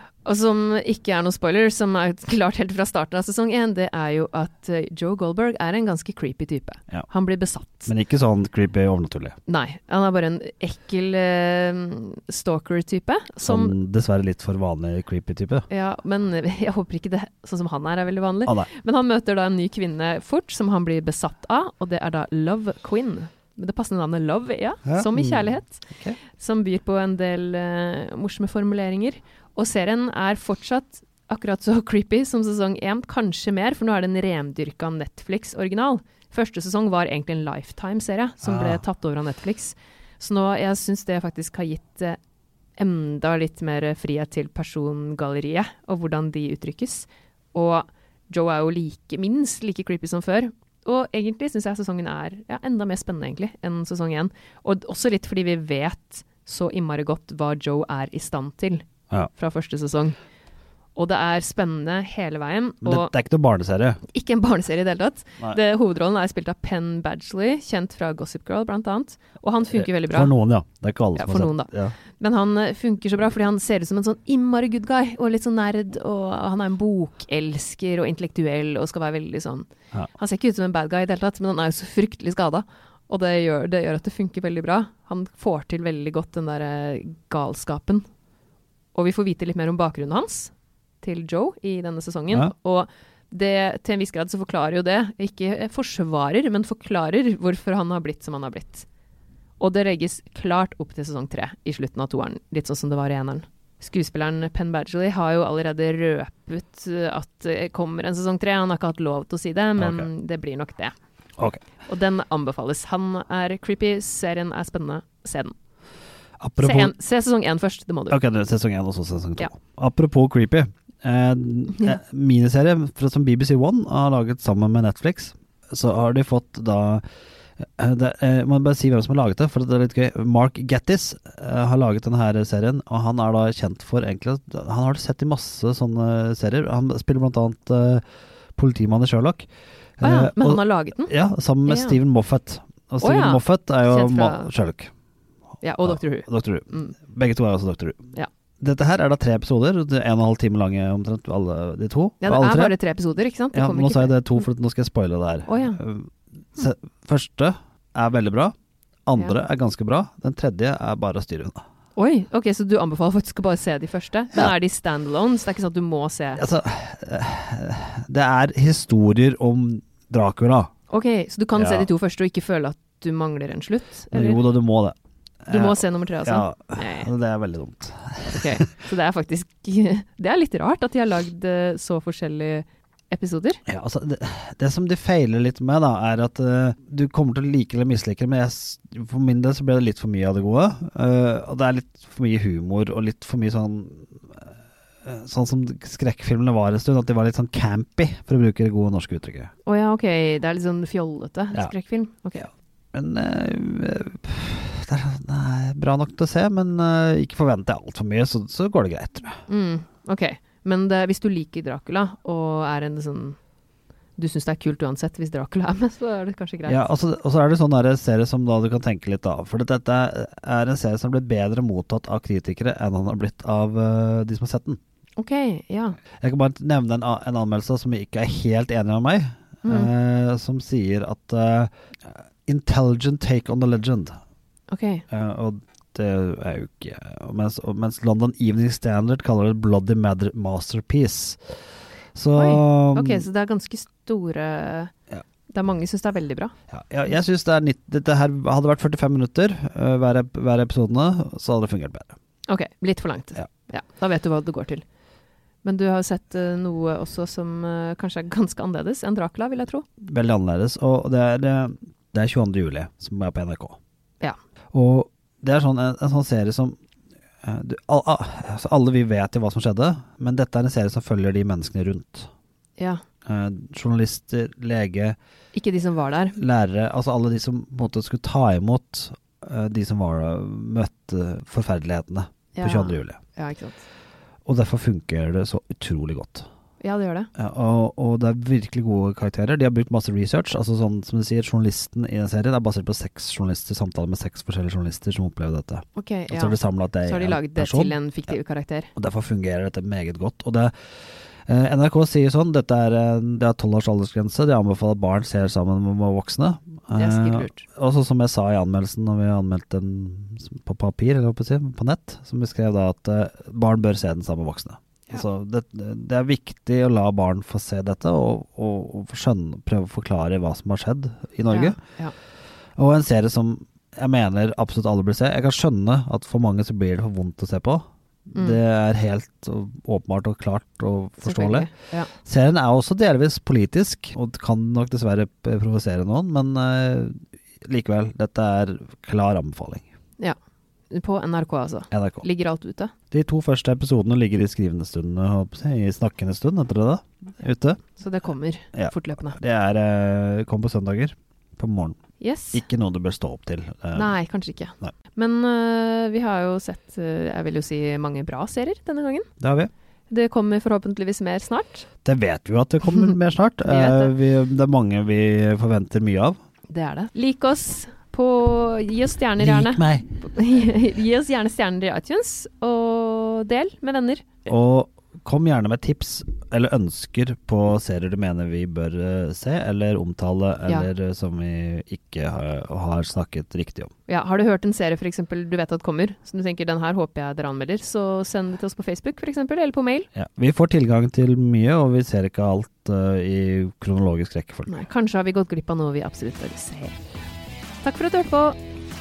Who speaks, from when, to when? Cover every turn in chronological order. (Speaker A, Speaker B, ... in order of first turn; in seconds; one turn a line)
Speaker A: 0.2-7.9
Speaker B: 7.8-9.4
Speaker A: 9.5-13.7
Speaker B: 13.4-15.7
Speaker A: 15.7-25.8
Speaker B: 24.9-26.2
Speaker A: 26.4-42.2
Speaker B: 38.4-38.8
Speaker A: 42.8-60.2
Speaker A: 61.0-63.1
Speaker B: 62.8-64.0
Speaker A: 64.1-70.3
Speaker B: 69.7-72.0
Speaker A: 71.2-88.0
Speaker A: 88.9-98.8
Speaker A: 99.6-110.9
Speaker B: 109.8-110.1
Speaker B: 111.4-111.6
Speaker A: 111.8-115.5
Speaker B: 116.4-116.9
Speaker A: 116.6-118.2
Speaker B: 118.1-127.0
Speaker B: 127.6-138.0
Speaker B: 138.6-139.5
Speaker B: 140.0-144.9
Speaker A: 140.0-141.1
Speaker A: 141.7-142.0
Speaker A: 143.0-144.5
Speaker A: 145.6-146.9
Speaker B: 145.8-152.8
Speaker A: 152.2-154.4
Speaker B: 153.5-158.5
Speaker A: 155.5-155.8
Speaker B: 159.1-161.6
Speaker A: 161.9-166.4
Speaker B: 166.3-170.7
Speaker A: 170.9-174.4
Speaker B: 171.6-171.9
Speaker B: 174.1-178.6
Speaker A: 175.5-177.1
Speaker A: 178.3-183.6
Speaker B: 183.7-194.5
Speaker B: 195.0-199.5
Speaker A: 199.7-202.5
Speaker B: 202.4-209.4
Speaker A: 209.5-213.4
Speaker A: 214.2-216.9
Speaker B: 216.7-224.8
Speaker A: 225.2-225.9
Speaker B: 226.2-234.2
Speaker A: 229.6-229.9
Speaker A: 234.7-235.0
Speaker B: 235.1-241.5
Speaker B: 242.1-243.2
Speaker A: 242.3-244.9
Speaker A: 245.5-246.5
Speaker B: 246.7-252.2
Speaker A: 252.5-254.8
Speaker A: 255.6-259.8
Speaker B: 260.0-263.8
Speaker B: 264.7-266.8
Speaker B: 267.4-272.3
Speaker B: 273.2-275.2
Speaker A: 275.5-276.4
Speaker B: 276.4-283.2
Speaker A: 282.6-283.8
Speaker B: 284.4-286.5
Speaker A: 286.8-287.3
Speaker B: 287.4-298.3
Speaker A: 295.9-298.9
Speaker B: 298.9-300.7
Speaker B: 301.5-321.8
Speaker A: 307.0-307.6
Speaker A: 321.5-322.1
Speaker B: 322.8-331.7
Speaker A: 331.2-332.1
Speaker B: 332.2-339.9
Speaker A: 340.9-342.9
Speaker B: 341.9-342.2
Speaker B: 343.1-347.9
Speaker A: 347.9-349.4
Speaker B: 348.7-352.0
Speaker A: 352.2-352.6
Speaker B: 352.5-354.1
Speaker A: 353.9-359.3
Speaker B: 359.4-359.7
Speaker A: 360.1-361.9
Speaker B: 362.0-366.4
Speaker A: 363.6-364.1
Speaker A: 366.7-374.3
Speaker B: 369.4-370.2
Speaker B: 374.5-383.9
Speaker A: 384.1-390.1
Speaker B: 390.1-394.7
Speaker A: 394.7-397.0
Speaker A: 397.8-398.6